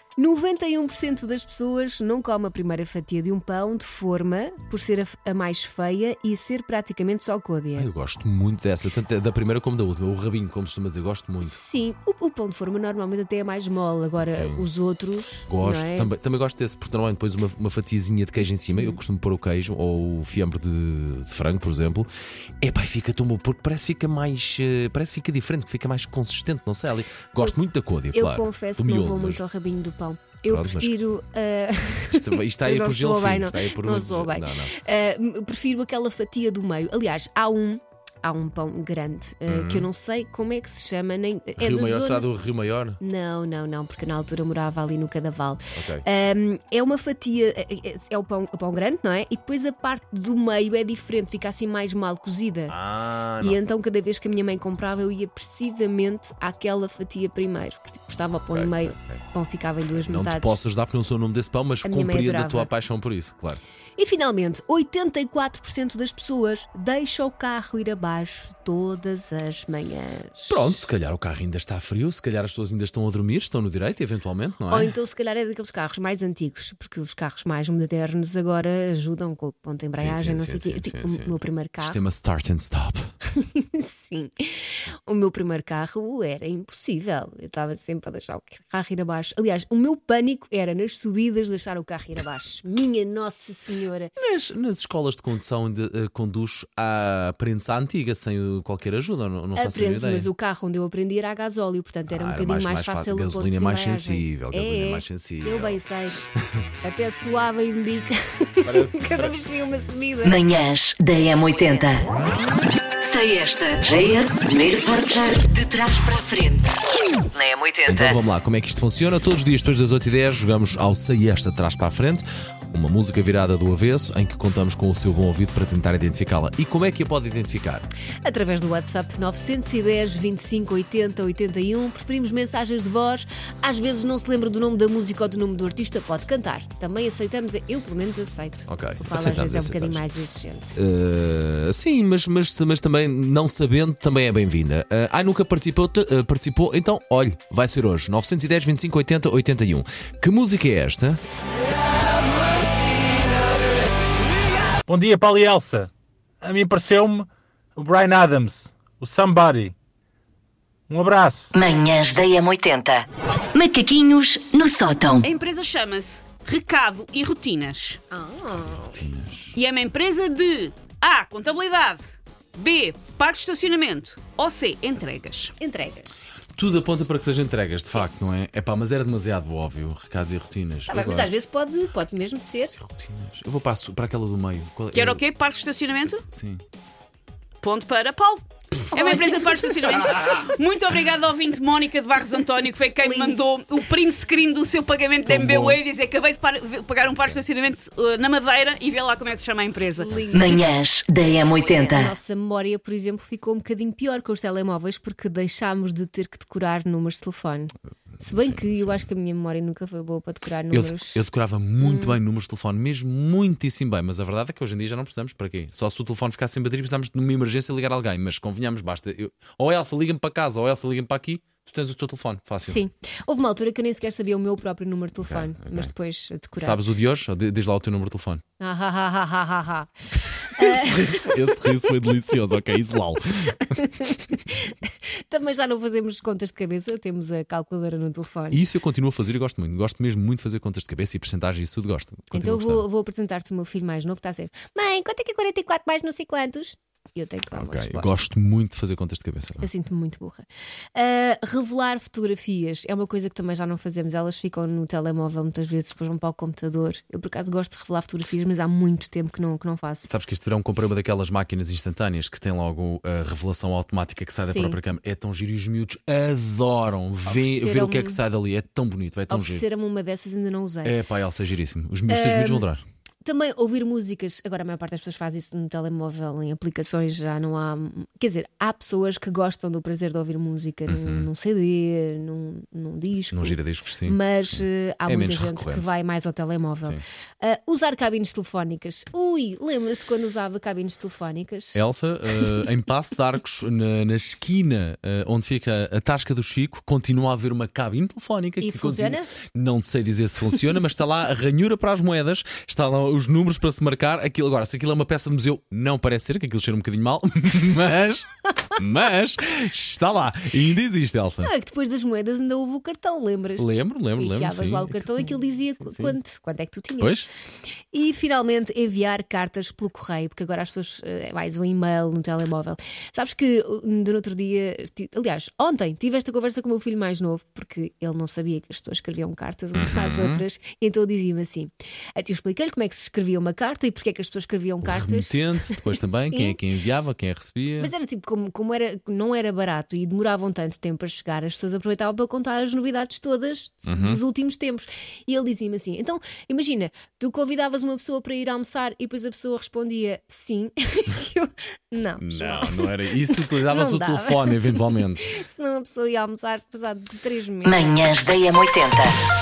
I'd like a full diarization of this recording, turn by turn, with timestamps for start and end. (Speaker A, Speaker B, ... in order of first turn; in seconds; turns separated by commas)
Speaker A: 0.2-7.9, Speaker B: 7.8-11.6, Speaker A: 11.4-16.1, Speaker B: 14.2-14.7, Speaker B: 15.5-22.1, Speaker A: 18.7-19.0, Speaker B: 22.6-29.4, Speaker A: 28.1-42.3, Speaker B: 30.5-31.0, Speaker B: 32.1-34.8, Speaker B: 39.5-39.9, Speaker B: 41.6-43.0, Speaker A: 43.0-52.8, Speaker B: 45.7-46.0, Speaker B: 52.7-53.6, Speaker A: 53.4-60.6, Speaker B: 58.5-59.2, Speaker B: 60.0-63.6, Speaker A: 61.8-62.7, Speaker A: 64.0-70.6, Speaker B: 70.5-75.0, Speaker A: 74.7-82.0, Speaker B: 80.0-83.1, Speaker A: 83.3-94.1, Speaker B: 94.2-100.3, Speaker A: 99.5-106.2, Speaker B: 102.1-105.8, Speaker A: 106.8-110.4, Speaker B: 108.7-109.3, Speaker C: 110.2-112.1, Speaker C: 113.0-116.7, Speaker C: 117.3-118.2, Speaker B: 117.9-127.9, Speaker A: 128.2-140.8, Speaker B: 138.7-140.1, Speaker B: 140.8-151.2, Speaker D: 154.9-155.9, Speaker D: 156.4-159.7, Speaker D: 160.9-161.5, Speaker C: 161.5-165.3, Speaker E: 165.2-168.0, Speaker A: 168.1-169.0, Speaker B: 168.6-169.6, Speaker E: 169.6-175.5, Speaker A: 175.6-176.3, Speaker B: 176.6-181.3, Speaker A: 180.9-182.8, Speaker B: 182.8-185.2, Speaker E: 184.9-186.2, Speaker B: 186.3-186.6, Speaker E: 187.6-200.1, Speaker A: 188.9-189.6, Speaker A: 193.0-193.4, Speaker B: 195.2-195.8, Speaker A: 200.0-200.8, Speaker C: 200.3-202.1, Speaker A: 201.6-211.2, Speaker B: 208.2-209.1, Speaker B: 210.7-222.8, Speaker A: 211.8-212.2, Speaker A: 222.6-226.8, Speaker B: 225.3-225.9, Speaker B: 226.6-228.4, Speaker A: 228.6-231.8, Speaker B: 230.6-233.8, Speaker A: 233.6-238.6, Speaker B: 238.5-242.9, Speaker A: 242.3-248.2, Speaker B: 247.5-249.7, Speaker A: 249.6-260.1, Speaker B: 260.1-269.6, Speaker A: 264.4-264.8, Speaker A: 267.3-268.2, Speaker A: 269.3-271.0, Speaker B: 270.8-272.8, Speaker A: 272.1-272.7, Speaker A: 273.2-291.8, Speaker B: 280.9-281.3, Speaker B: 283.3-285.9, Speaker B: 291.7-311.5, Speaker A: 298.6-299.3, Speaker A: 311.4-317.2, Speaker B: 313.6-316.2, Speaker B: 317.0-317.3, Speaker A: 317.9-336.6, Speaker B: 329.8-330.4, Speaker B: 334.8-337.9, Speaker A: 337.8-358.0, Speaker B: 343.9-344.2, Speaker B: 352.2-355.3, Speaker C: 357.6-359.1